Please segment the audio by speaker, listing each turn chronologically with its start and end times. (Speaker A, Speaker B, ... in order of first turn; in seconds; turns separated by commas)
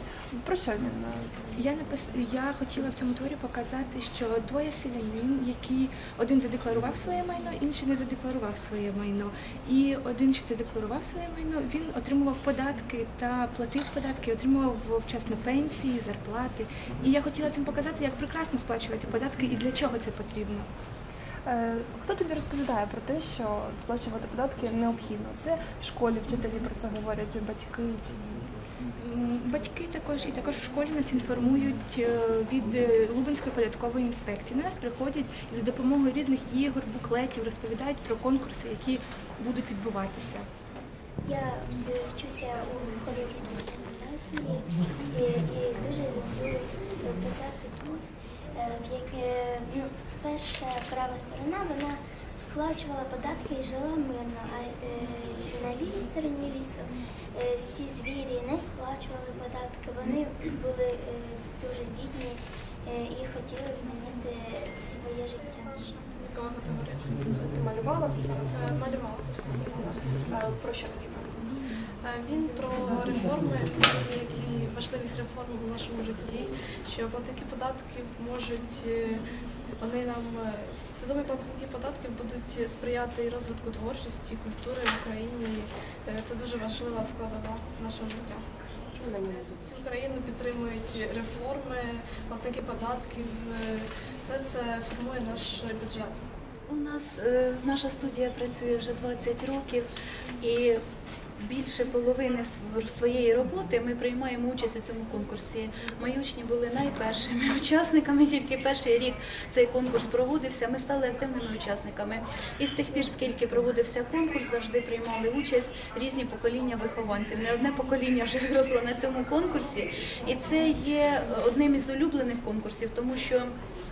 Speaker A: 0.3-1.4, Speaker B: 1.5-20.7, Speaker A: 21.5-28.5, Speaker B: 29.0-40.5, Speaker C: 41.2-65.8, Speaker D: 65.7-67.2, Speaker A: 67.3-68.8, Speaker D: 68.6-69.5, Speaker A: 69.6-71.5, Speaker D: 72.0-79.2, Speaker D: 79.8-88.4, Speaker D: 89.0-96.2, Speaker E: 96.7-99.9, Speaker E: 100.4-100.8, Speaker E: 101.4-123.5